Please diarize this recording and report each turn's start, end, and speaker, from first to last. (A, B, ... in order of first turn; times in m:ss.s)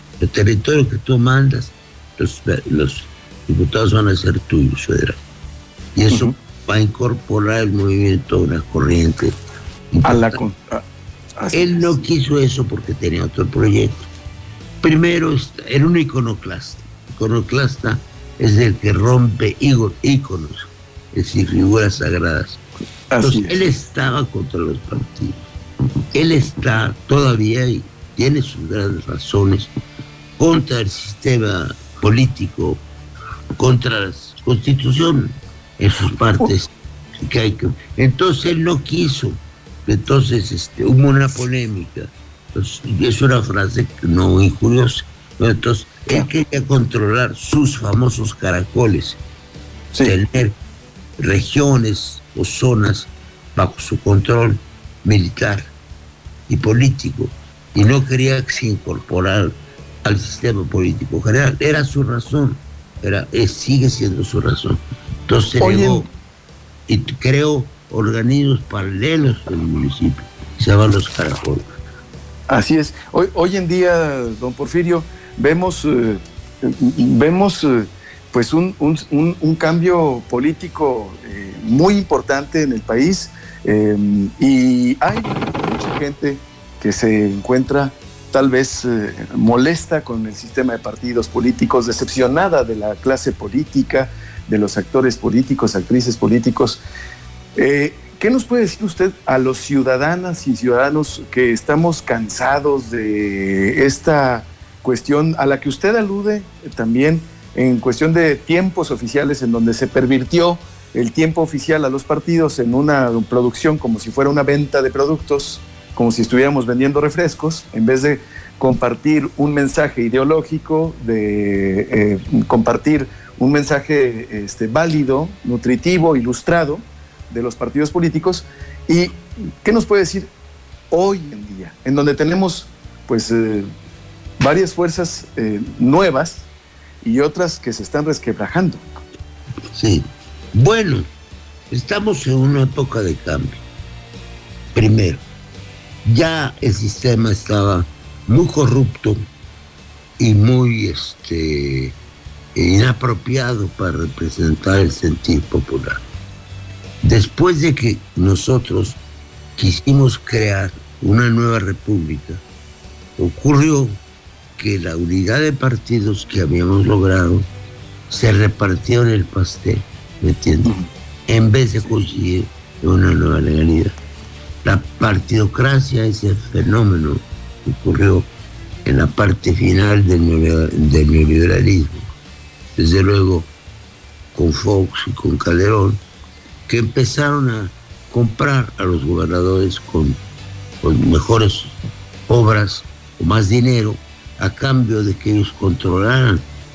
0:00.2-0:05.2 A
0:05.9-0:09.3 A
0:09.9-0:10.4 A
0:10.0-0:10.8 B
0:11.4-0:12.0 B
0:11.5-0:14.1 A
0:14.8-0:22.6 A
0:23.1-0:23.6 B
0:23.2-0:25.4 A
0:26.1-0:29.7 A
0:30.4-0:32.8 A
0:33.6-0:49.2 A
0:50.0-0:50.6 A
0:51.2-0:55.7 A
0:56.5-1:06.1 A
1:05.6-1:06.1 B
1:06.9-1:11.6 A
1:12.5-1:36.8 B
1:37.6-2:10.3 B
2:10.9-2:13.7 B
2:14.4-2:16.4 B
2:17.0-2:18.8 B
2:19.7-2:21.1 A
2:21.7-2:23.6 A
2:24.7-2:25.2 A
2:26.0-2:29.2 A
2:30.2-2:32.0 A
2:32.5-2:36.0 A
2:37.0-2:39.0 A
2:39.6-2:42.4 A
2:43.2-2:44.0 A
2:44.6-2:47.4 A
2:48.1-2:50.7 A
2:51.3-2:54.0 A
2:54.6-2:58.3 A
2:58.8-3:02.1 A
3:02.8-3:03.5 A
3:04.3-3:06.0 A
3:06.7-3:10.2 A
3:10.8-3:11.8 A
3:12.3-3:16.4 A